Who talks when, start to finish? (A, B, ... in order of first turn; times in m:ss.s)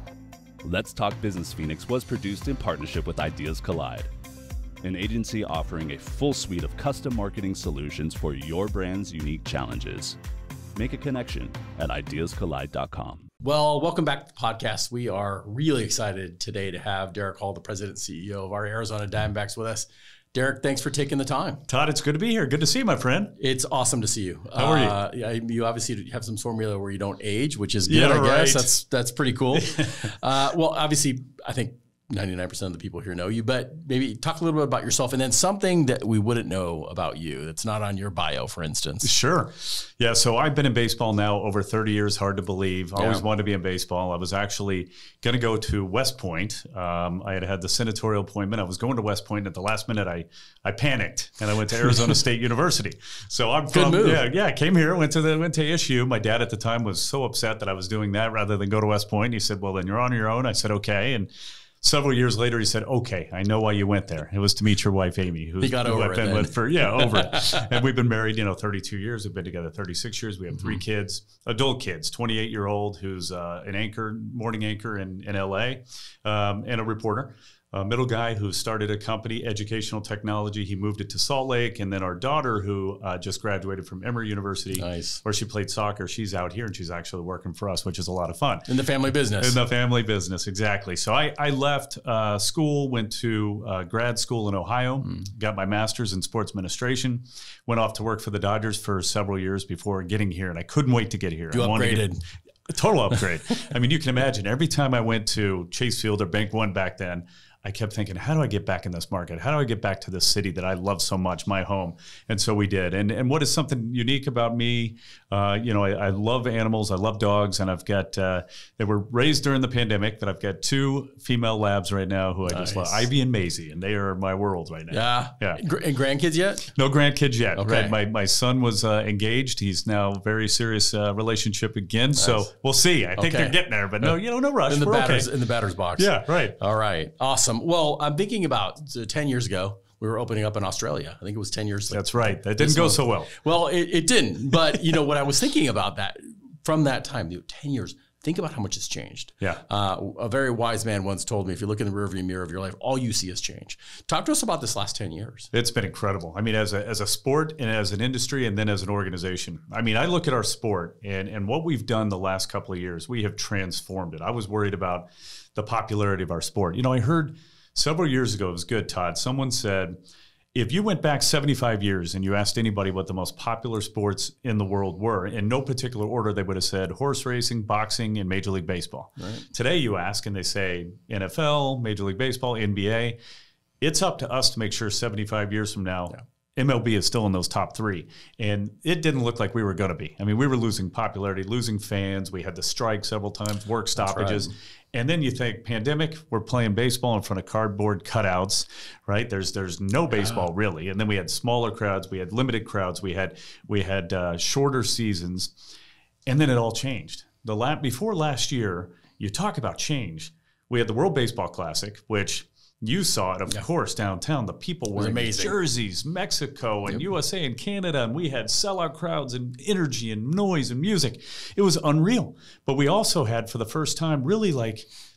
0:00.6-0:04.1 A
0:04.8-0:10.2 A
0:10.7-0:13.3 A
0:13.4-0:21.6 B
0:21.7-0:23.4 C
0:23.4-0:39.1 B
0:24.5-0:25.0 C
0:27.9-0:28.7 C
0:29.5-0:29.9 C
0:39.0-1:01.3 C
0:43.0-0:43.2 B
0:53.7-0:54.2 B
1:01.8-1:28.7 C
1:05.6-1:07.6 B
1:24.8-1:25.2 B
1:28.7-1:29.6 B
1:29.4-1:42.1 C
1:41.5-1:42.2 B
1:42.7-2:05.6 C
2:02.5-2:03.0 B
2:04.9-2:06.7 B
2:06.7-2:15.3 C
2:07.6-2:07.9 B
2:12.2-2:12.5 B
2:13.2-2:14.2 B
2:14.7-2:35.5 B
2:16.0-2:16.6 C
2:21.9-2:23.3 C
2:35.5-2:50.0 C
2:50.5-3:03.2 C
2:59.2-2:59.4 B
3:03.8-3:25.5 C
3:14.0-3:14.5 B
3:26.2-3:44.9 C
3:35.0-3:35.6 B